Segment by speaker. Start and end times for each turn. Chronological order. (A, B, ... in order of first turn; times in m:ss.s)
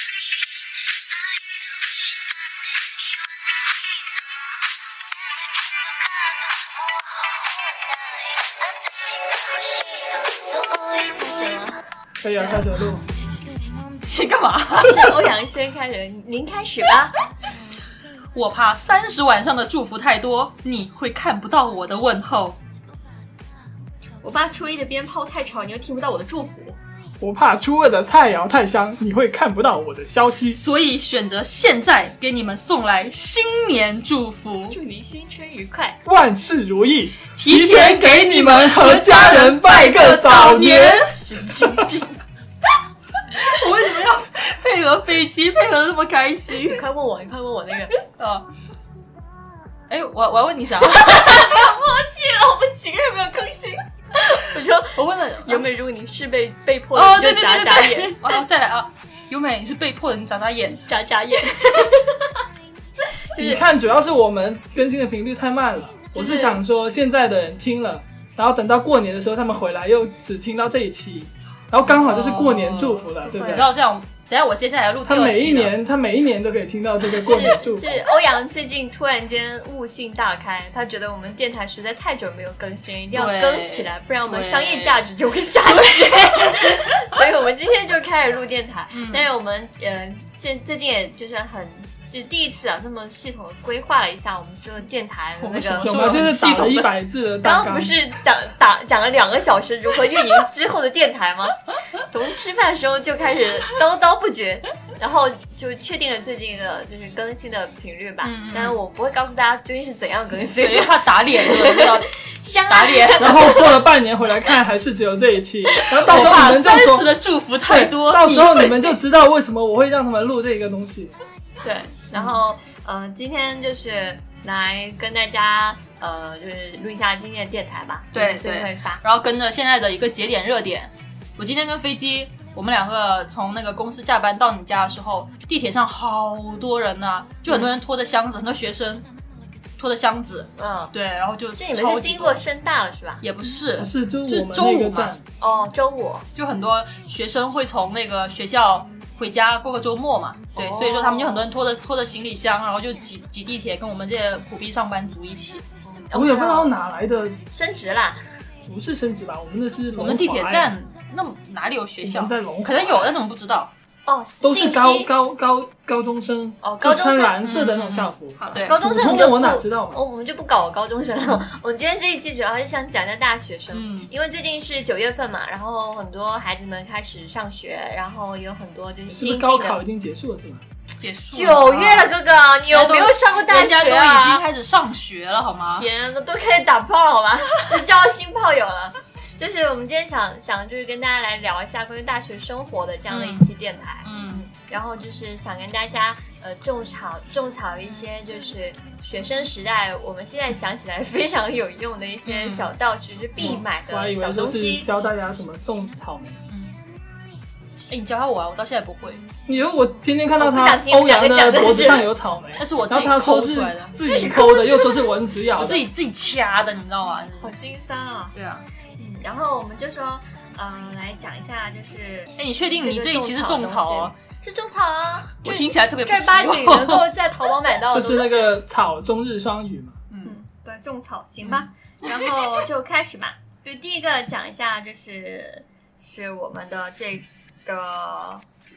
0:05.5-0:07.8 A
0:08.9-0:11.8 A
0:12.2-0:13.0 B
0:14.1-0:15.2 C
0:14.7-0:17.2 A
0:18.3-0:22.6 C
0:24.2-0:26.8 A
0:27.2-0:30.6 B
0:30.6-0:34.8 C
0:34.7-0:36.0 A
0:36.0-0:41.1 B
0:37.4-0:41.2 C
0:41.1-0:42.2 A
0:43.4-0:46.8 C
0:46.6-0:47.9 A
0:48.2-0:48.5 C
0:49.9-0:51.6 C
0:50.9-0:58.4 A
0:55.0-0:55.7 C
0:56.9-1:00.9 C
1:00.9-1:02.4 A
1:03.3-1:03.6 A
1:03.4-1:13.7 B
1:06.1-1:06.6 A
1:11.9-1:15.7 C
1:13.3-1:13.7 A
1:15.1-1:17.9 B
1:17.3-1:36.7 A
1:23.1-1:25.1 C
1:25.7-1:27.0 C
1:28.9-1:29.3 C
1:35.4-1:36.9 C
1:35.8-1:38.0 B
1:37.4-1:53.7 A
1:48.2-1:48.8 C
1:50.5-1:52.1 C
1:52.7-1:53.4 C
1:53.2-1:57.1 B
1:56.1-1:58.9 C
1:57.7-2:01.1 B
2:01.6-2:09.0 A
2:08.1-2:19.1 C
2:17.5-2:17.7 A
2:19.8-2:22.4 C
2:20.6-2:20.9 A
2:21.5-2:23.2 A
2:23.2-2:25.1 C
2:23.8-2:25.2 B
2:25.4-2:26.3 A
2:26.4-2:35.6 C
2:30.6-2:31.5 A
2:35.8-2:36.7 A
2:36.1-2:37.4 B
2:37.5-2:38.2 A
2:38.7-2:40.7 B
2:40.0-2:43.7 C
2:42.0-2:43.1 B
2:44.1-2:45.1 A
2:44.4-2:50.0 B
2:46.6-2:47.4 A
2:47.4-2:49.3 C
2:48.8-2:59.8 A
2:53.7-2:54.1 C
2:59.1-3:00.6 B
3:01.0-3:02.2 C
3:01.3-3:04.4 A
3:02.7-3:05.9 C
3:05.7-3:24.9 A
3:13.1-3:13.5 C
3:14.0-3:14.5 C
3:22.3-3:22.7 C
3:23.4-3:26.4 B
3:26.5-3:26.8 C
3:27.9-3:29.2 C
3:29.5-3:35.8 B
3:30.4-3:32.1 A
3:32.6-3:34.0 C
3:34.0-3:35.1 A
3:35.6-3:37.5 C
3:37.4-3:38.4 A
3:38.4-3:38.6 C
3:39.0-3:48.5 A
3:42.4-3:44.2 C
3:45.4-3:47.1 C
3:47.9-3:50.0 B
3:50.1-3:50.4 C
3:50.2-3:58.4 A